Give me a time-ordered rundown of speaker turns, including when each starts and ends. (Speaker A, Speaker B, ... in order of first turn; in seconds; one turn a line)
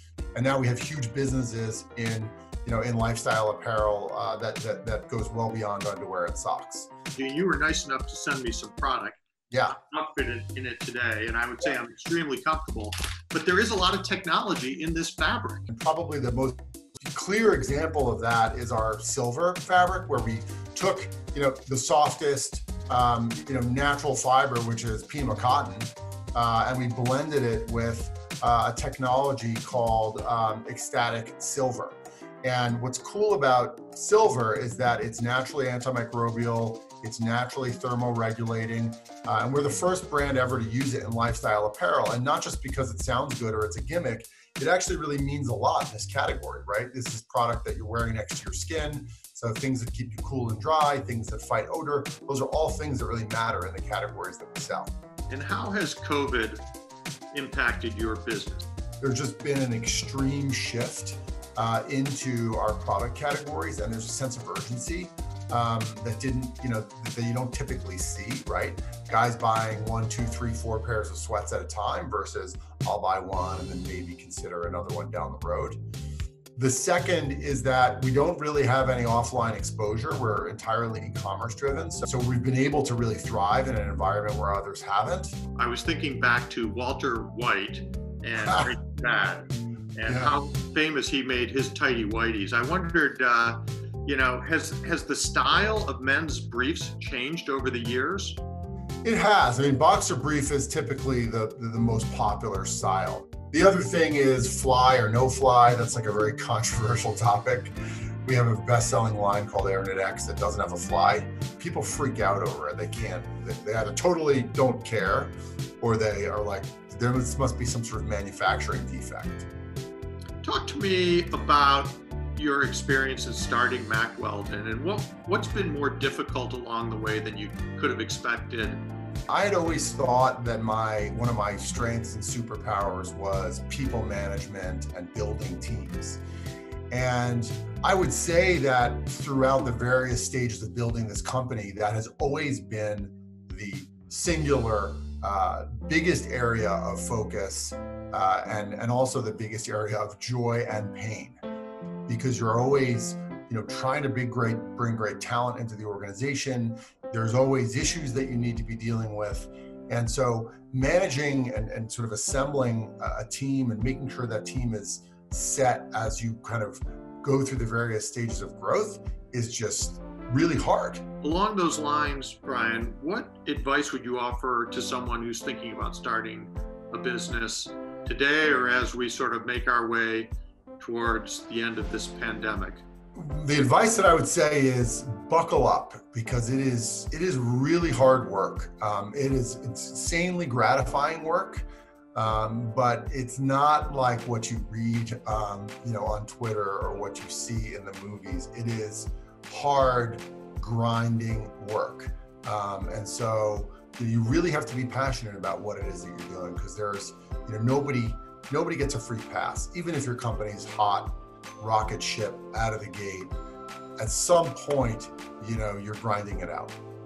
Speaker A: 0.3-6.9
Speaker B: 7.1-15.7
Speaker A: 9.5-9.8
Speaker A: 15.7-54.9
Speaker B: 55.3-56.6
Speaker B: 57.3-58.7
Speaker A: 59.0-75.8
Speaker A: 76.6-85.3
Speaker B: 85.6-98.4
Speaker A: 88.4-88.7
Speaker A: 90.1-90.4
Speaker A: 99.0-107.7
Speaker A: 108.3-119.5
Speaker B: 120.4-128.8
Speaker A: 129.3-136.2
Speaker A: 136.9-151.4
Speaker A: 152.1-171.0
Speaker B: 171.2-182.8
Speaker A: 183.2-213.3
Speaker A: 214.0-216.8